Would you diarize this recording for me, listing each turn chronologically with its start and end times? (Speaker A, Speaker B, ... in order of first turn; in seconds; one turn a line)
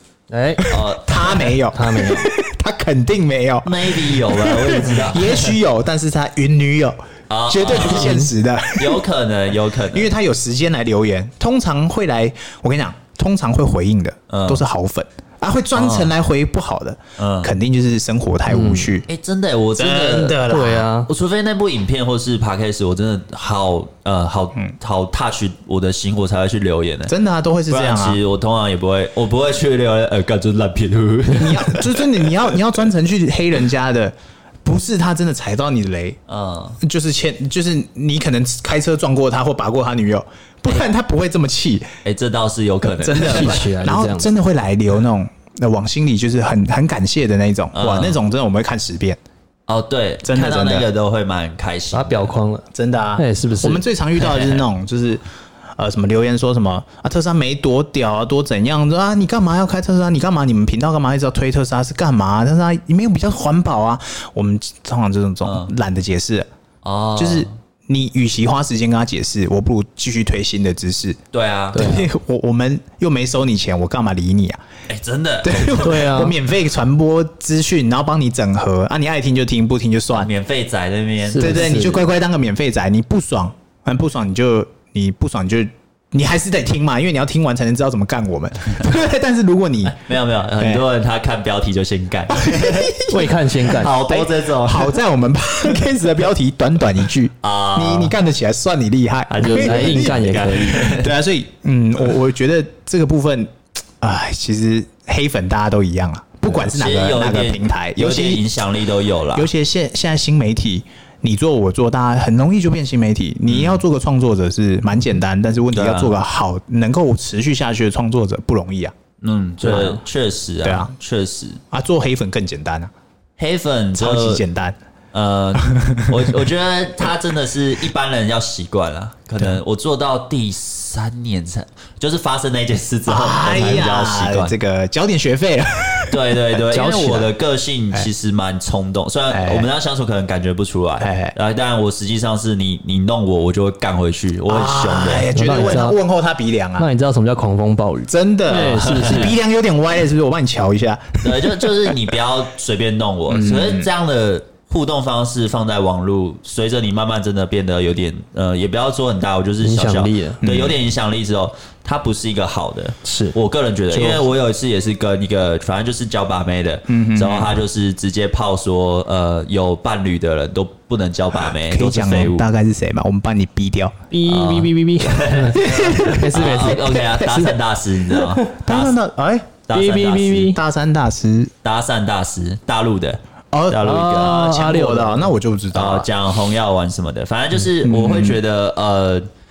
Speaker A: 0.3-0.6
Speaker B: 0.6-9.0
Speaker C: 0.7-1.6
Speaker A: 1.7-2.3
Speaker C: 3.6-5.6
Speaker C: 7.3-10.1
Speaker A: 7.9-8.3
Speaker B: 9.9-19.1
Speaker C: 14.3-14.6
Speaker C: 15.8-16.1
Speaker C: 17.2-17.5
Speaker A: 18.5-18.9
Speaker C: 19.1-20.4
Speaker B: 19.8-20.9
Speaker A: 20.4-21.1
Speaker C: 21.1-27.1
Speaker B: 27.1-28.2
Speaker C: 27.7-32.0
Speaker B: 31.3-36.2
Speaker C: 36.3-36.8
Speaker B: 36.8-41.9
Speaker C: 42.0-43.6
Speaker B: 43.0-49.2
Speaker A: 43.0-44.3
Speaker C: 47.7-48.2
Speaker C: 49.7-52.4
Speaker B: 50.2-50.9
Speaker A: 51.9-53.8
Speaker B: 52.7-55.2
Speaker C: 54.2-54.6
Speaker B: 55.8-66.5
Speaker C: 65.4-65.7
Speaker C: 66.8-67.5
Speaker B: 67.2-71.2
Speaker C: 71.3-72.0
Speaker B: 71.7-74.6
Speaker A: 71.7-72.1
Speaker C: 74.9-76.1
Speaker B: 75.4-80.3
Speaker A: 75.8-76.3
Speaker C: 80.1-82.0
Speaker A: 81.3-82.0
Speaker B: 81.3-90.0
Speaker C: 89.9-95.0
Speaker B: 92.3-93.4
Speaker A: 93.1-94.0
Speaker B: 93.9-108.4
Speaker C: 97.4-98.1
Speaker A: 99.3-100.9
Speaker C: 99.3-101.1
Speaker C: 106.6-109.5
Speaker B: 109.3-118.9
Speaker C: 113.5-113.8
Speaker C: 115.7-116.1
Speaker C: 119.2-121.6
Speaker A: 119.6-120.0
Speaker B: 120.6-120.9
Speaker B: 121.7-122.9
Speaker C: 123.4-124.4
Speaker B: 124.0-124.8
Speaker C: 125.1-134.5
Speaker B: 125.6-126.3
Speaker B: 133.1-136.3
Speaker A: 133.5-133.8
Speaker C: 136.1-145.8
Speaker A: 136.7-137.3
Speaker B: 139.3-139.7
Speaker B: 141.0-141.3
Speaker B: 144.5-146.9
Speaker A: 145.3-146.0
Speaker A: 146.8-149.3
Speaker B: 148.1-151.9
Speaker C: 148.5-149.3
Speaker C: 151.2-172.4
Speaker B: 153.3-153.9
Speaker A: 159.6-160.4
Speaker B: 160.4-160.8
Speaker A: 163.0-163.3
Speaker A: 163.9-164.2
Speaker B: 166.9-167.6
Speaker B: 171.5-173.9
Speaker A: 174.1-177.6
Speaker C: 174.3-178.9
Speaker B: 175.5-177.2
Speaker A: 178.1-178.5
Speaker B: 178.6-179.6
Speaker C: 179.7-180.6
Speaker A: 179.7-180.6
Speaker B: 180.5-181.5
Speaker C: 181.6-183.2
Speaker B: 183.5-186.1
Speaker C: 183.7-184.4
Speaker A: 183.7-185.3
Speaker C: 185.7-189.3
Speaker B: 187.7-188.4